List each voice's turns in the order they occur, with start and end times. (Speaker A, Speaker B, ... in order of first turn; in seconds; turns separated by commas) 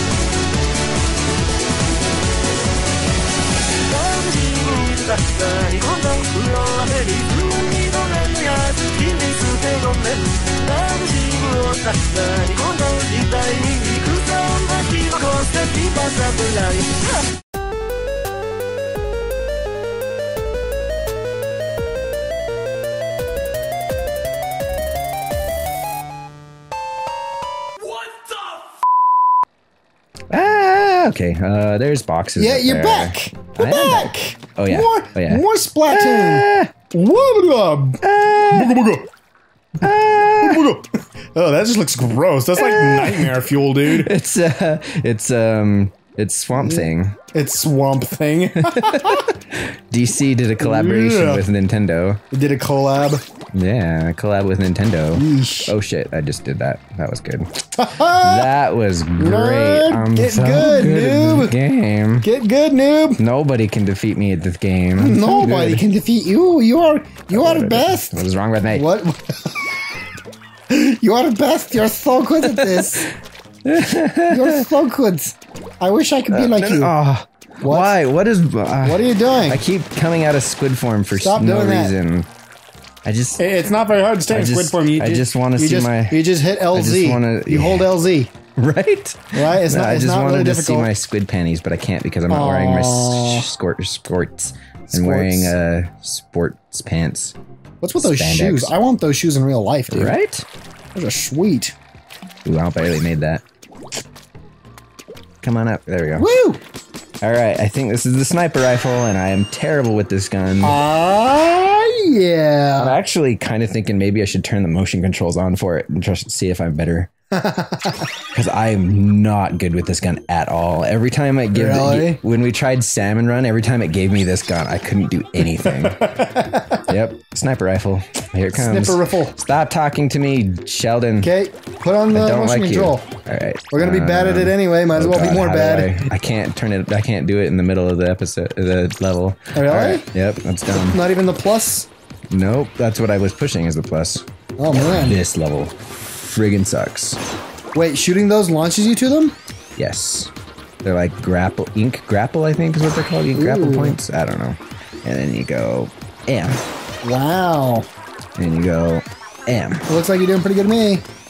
Speaker A: 3.9-17.1, Speaker B: 30.3-36.7, Speaker C: 32.4-39.1, Speaker B: 38.0-38.8, Speaker B: 39.8-40.6, Speaker C: 40.4-44.1, Speaker B: 42.5-47.2, Speaker C: 46.6-49.3, Speaker B: 48.7-52.2, Speaker C: 50.6-51.5, Speaker C: 52.3-53.2, Speaker B: 53.5-57.5, Speaker C: 55.1-55.7, Speaker C: 57.8-58.5, Speaker B: 58.0-62.3, Speaker C: 59.2-61.5, Speaker C: 62.2-63.2, Speaker B: 63.2-65.8, Speaker C: 65.0-69.5, Speaker B: 67.3-68.9, Speaker C: 70.7-73.1, Speaker B: 72.4-73.1, Speaker B: 73.7-74.7, Speaker C: 74.3-77.0, Speaker B: 76.3-82.3, Speaker C: 77.6-77.9, Speaker C: 78.8-79.6, Speaker C: 81.2-82.0, Speaker B: 83.0-83.4, Speaker C: 83.4-88.3, Speaker B: 84.3-87.9, Speaker B: 88.6-97.4, Speaker C: 89.3-90.9, Speaker C: 92.3-93.5, Speaker C: 94.9-95.6, Speaker C: 97.8-100.2, Speaker B: 98.0-98.7, Speaker B: 99.9-100.5, Speaker C: 100.9-101.8, Speaker B: 102.5-103.4, Speaker B: 105.4-106.3, Speaker C: 106.2-106.6, Speaker B: 107.2-110.8, Speaker C: 110.6-113.0, Speaker B: 112.8-117.1, Speaker C: 117.3-118.1, Speaker B: 118.3-126.2, Speaker C: 121.5-122.2, Speaker C: 125.6-126.9, Speaker B: 126.9-131.3, Speaker C: 128.5-129.3, Speaker C: 131.2-133.1, Speaker B: 132.1-141.0, Speaker C: 133.7-136.1, Speaker C: 139.6-140.1, Speaker C: 140.8-141.9, Speaker B: 142.3-147.2, Speaker C: 144.6-145.2, Speaker C: 147.7-149.4, Speaker B: 149.8-150.3, Speaker B: 150.8-156.6, Speaker C: 153.3-154.0, Speaker C: 157.0-157.9, Speaker B: 158.4-159.8, Speaker C: 159.9-161.0